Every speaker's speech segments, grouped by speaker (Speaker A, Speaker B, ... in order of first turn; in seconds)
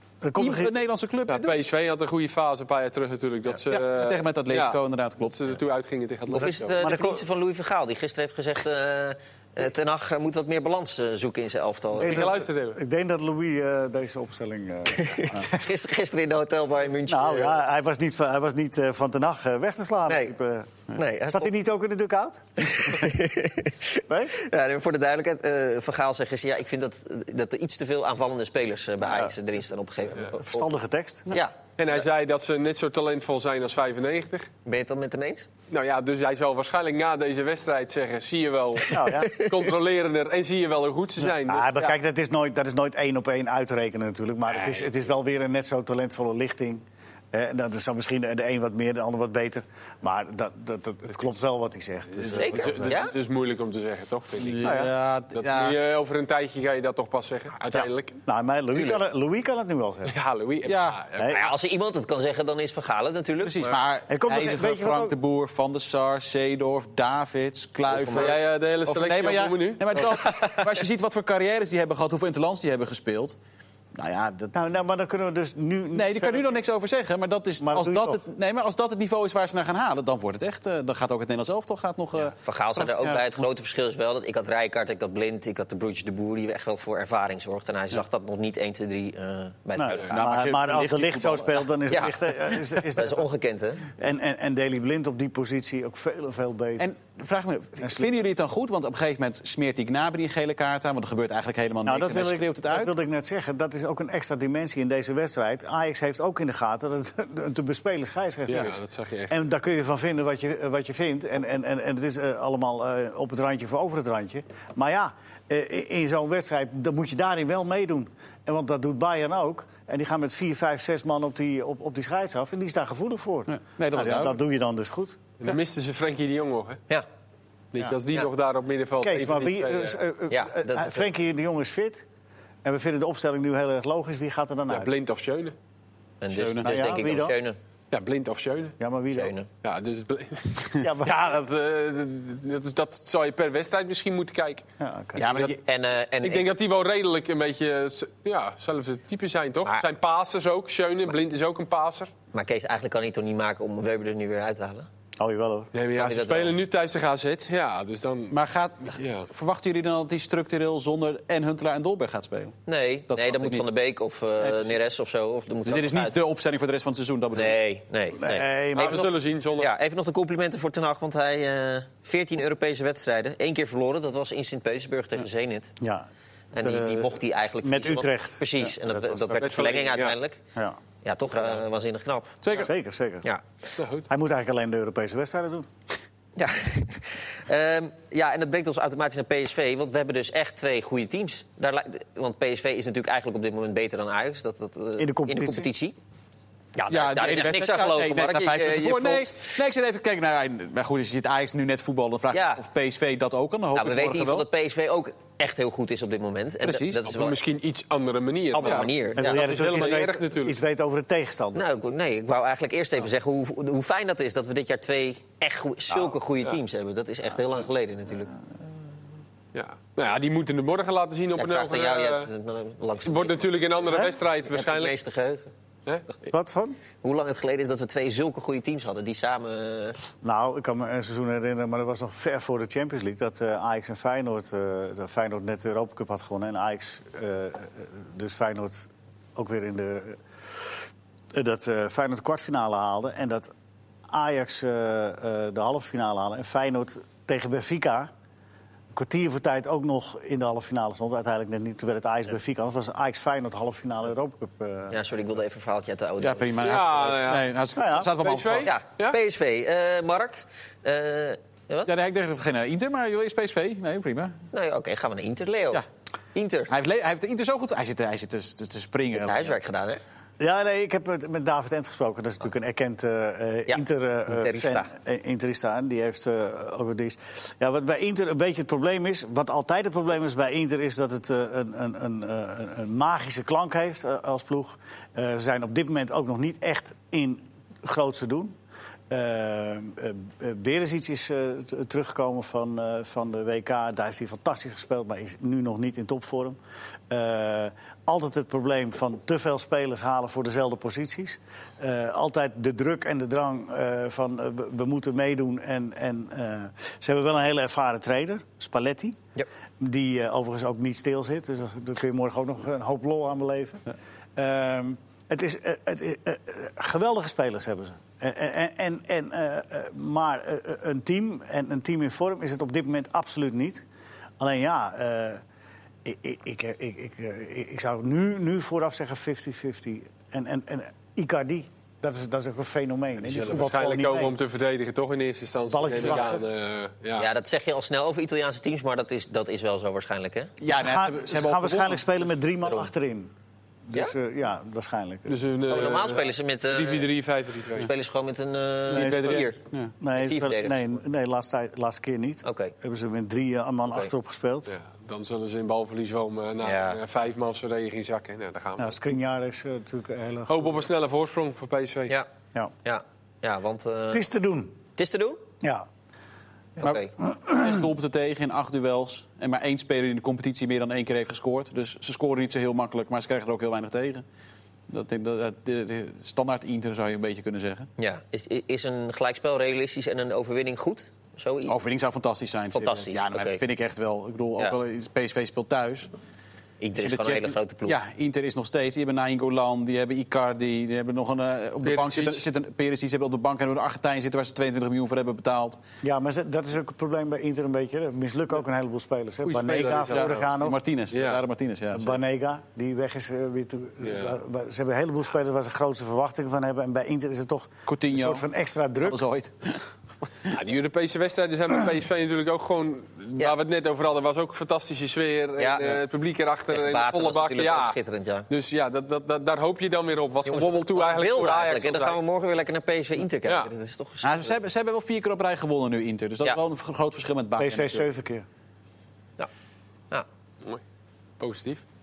Speaker A: 0.2-0.7, 6.8-7.2, 12.0-15.6, 17.1-23.1, 24.1-24.4, 30.4-31.4, 38.9-39.4, 41.4-53.0, 54.6-54.9, 57.7-60.1, 61.2-61.5, 64.1-65.2, 74.5-76.6, 77.6-78.2, 89.8-93.3, 94.0-96.8, 97.8-98.1, 101.8-125.2, 129.0-132.0, 132.6-134.9, 136.6-137.4, 138.8-139.3, 140.8-141.4, 144.8-145.3, 155.2-155.7, 168.2-169.1, 175.8-176.1, 176.6-179.6, 182.5-183.2, 184.1-185.7, 195.0-195.7, 209.2-211.7, 226.3-226.8, 230.2-240.7, 241.3-243.5, 244.1-248.1, 248.9-255.0, 257.8-258.1, 270.4-288.5, 289.1-296.6, 297.1-309.2, 309.8-313.8, 314.4-323.8, 324.4-325.4, 326.0-334.4, 335.7-336.4, 340.7-343.3, 343.9-345.4, 348.9-349.5, 350.0-354.7, 358.8-360.8, 364.1-364.8, 365.6-365.9, 366.8-367.8, 396.0-400.8, 401.9-409.2, 427.6-428.4
Speaker B: 0.3-1.6, 3.7-5.5, 54.4-55.8, 60.6-61.0, 63.4-73.3, 73.9-74.5, 75.9-83.2, 90.1-91.7, 96.8-102.9, 123.5-124.4, 136.3-137.0, 145.2-145.6, 158.3-162.6, 163.1-163.7, 164.4-164.8, 165.6-167.6, 182.4-182.7, 196.9-204.5, 206.6-207.1, 208.6-208.9, 256.2-258.7, 261.9-264.4, 266.7-269.6, 340.6-342.1, 348.9-349.9, 366.8-374.2, 374.9-377.9, 381.7-386.1, 387.0-395.8, 400.0-402.2, 407.9-408.4, 409.0-409.9, 424.2-428.1
Speaker C: 1.3-6.8, 11.9-12.8, 31.8-34.5, 35.7-42.0, 44.6-44.9, 52.2-58.2, 60.0-61.5, 68.1-70.1, 108.5-109.3, 125.4-126.8, 127.7-130.0, 134.7-135.5, 137.9-138.8, 139.6-144.6, 146.2-152.1, 155.7-158.3, 159.0-159.3, 168.7-169.7, 179.3-180.2, 183.8-184.1, 207.0-210.6, 219.5-222.3, 223.0-224.9, 256.6-257.5, 258.2-259.2, 333.2-337.3, 345.3-347.9, 354.7-359.0, 360.5-362.1, 391.8-392.4, 399.4-400.5, 401.1-401.4, 404.0-404.4, 410.5-418.0, 418.5-422.2, 423.4-423.7, 431.4-431.8
Speaker D: 6.3-12.3, 14.9-17.6, 20.1-20.3, 20.9-21.5, 22.6-30.7, 34.6-35.5, 39.0-39.6, 52.3-53.1, 61.3-63.8, 67.9-68.3, 70.1-70.6, 82.3-90.1, 91.9-92.1, 92.9-93.9, 130.3-131.1, 136.2-137.6, 139.1-139.5, 145.5-146.5, 152.3-154.9, 155.9-156.6, 162.7-166.2, 167.3-175.8, 176.5-180.4, 181.0-182.4, 186.3-195.9, 196.8-199.5, 202.3-202.6, 203.7-207.4, 208.5-210.0, 211.5-218.4, 221.4-225.5, 227.0-230.0, 254.9-256.6, 258.6-261.9, 264.5-265.8, 266.3-266.7, 269.1-270.0, 273.7-274.9, 337.2-340.5, 345.7-347.1, 347.8-349.6, 350.1-350.9, 352.4-352.7, 356.6-357.0, 362.8-364.2, 364.9-365.4, 366.8-367.1, 378.0-381.8, 382.7-383.6, 386.8-387.9, 415.6-416.0, 416.7-418.5, 420.4-424.5